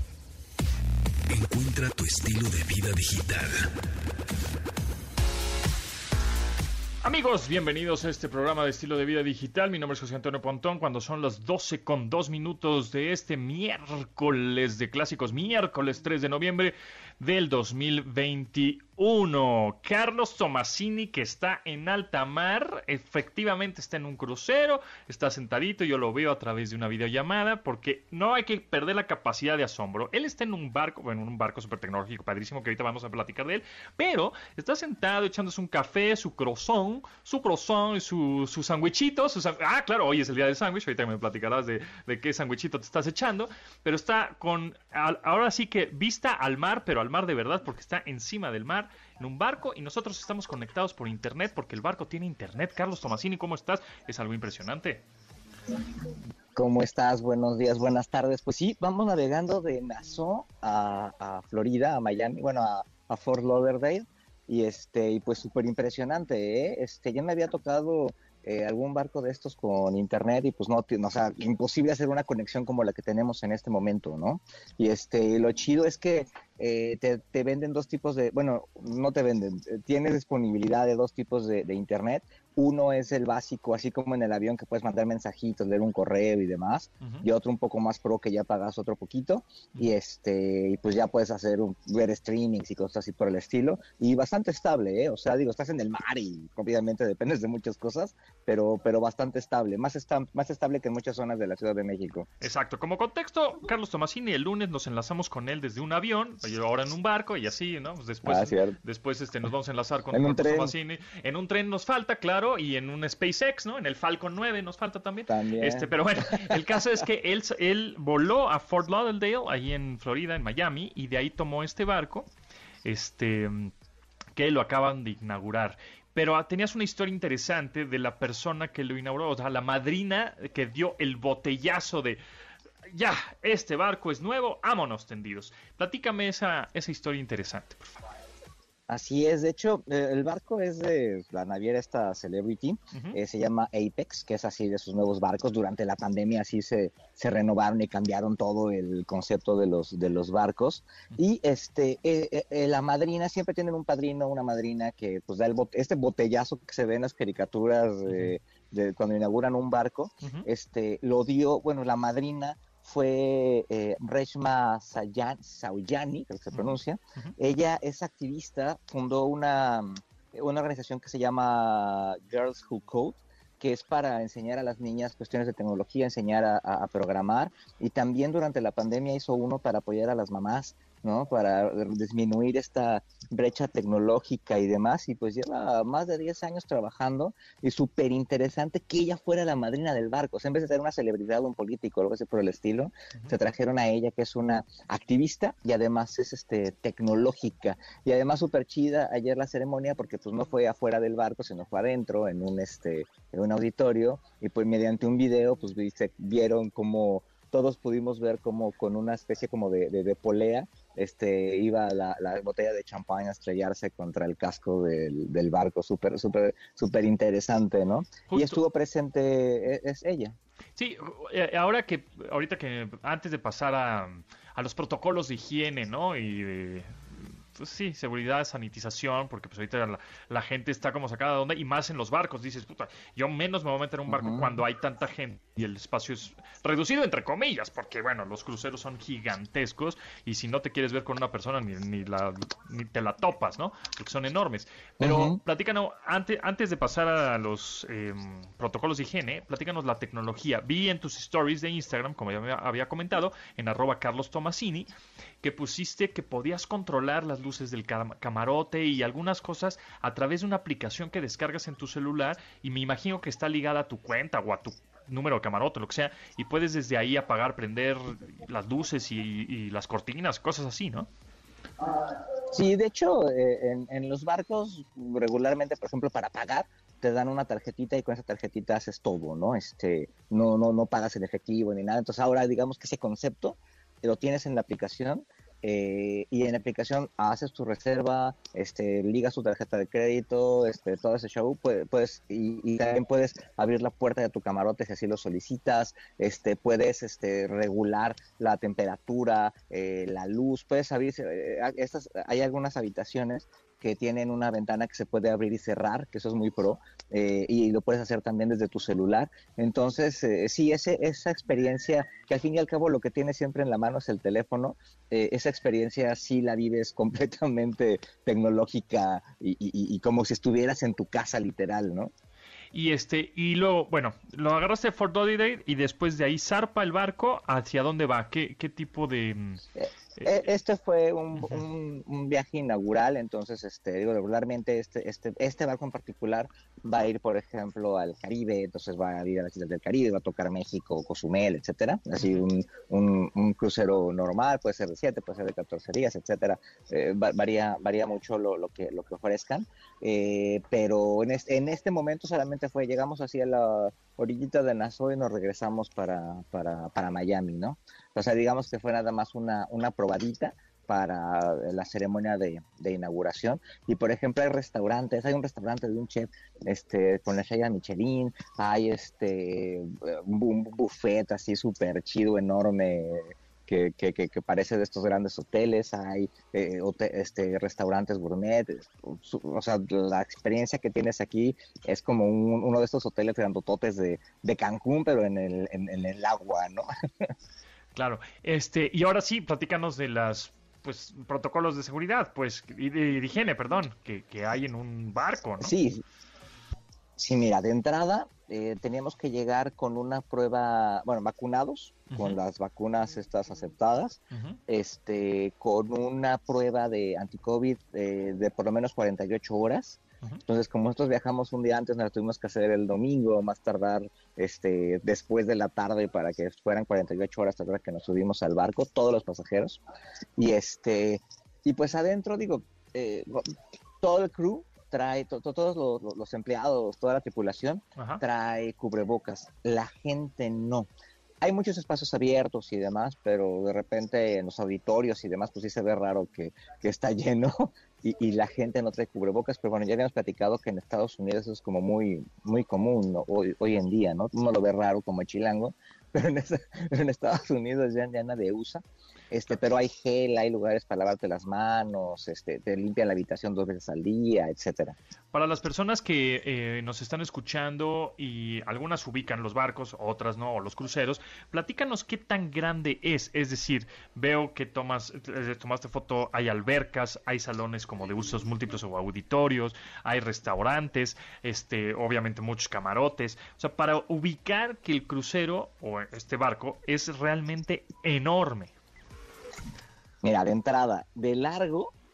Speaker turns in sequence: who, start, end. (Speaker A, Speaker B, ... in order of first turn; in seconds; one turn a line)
Speaker A: 1.3-3.7
Speaker B: 7.0-55.0
Speaker C: 56.6-102.3
Speaker B: 102.4-122.3
Speaker C: 108.2-108.8
Speaker C: 110.1-110.8
Speaker C: 115.3-116.8
Speaker B: 122.8-123.7
Speaker B: 124.4-132.2
Speaker B: 132.9-138.0
Speaker C: 138.9-220.4
Speaker B: 142.9-143.2
Speaker B: 166.5-167.3
Speaker B: 218.3-218.6
Speaker B: 220.8-254.9
Speaker C: 234.1-234.6
Speaker C: 245.0-245.4
Speaker B: 255.4-271.1
Speaker C: 272.5-322.1
Speaker B: 322.7-329.6
Speaker C: 329.8-387.3
Speaker B: 387.9-395.7
Speaker C: 395.6-396.0
Speaker C: 397.2-419.8
Speaker B: 402.1-402.4
Speaker B: 404.3-404.6
Speaker C: 420.4-430.9
Speaker B: 428.0-428.2
Speaker C: 431.4-455.0
Speaker B: 455.3-478.7
Speaker C: 480.2-481.9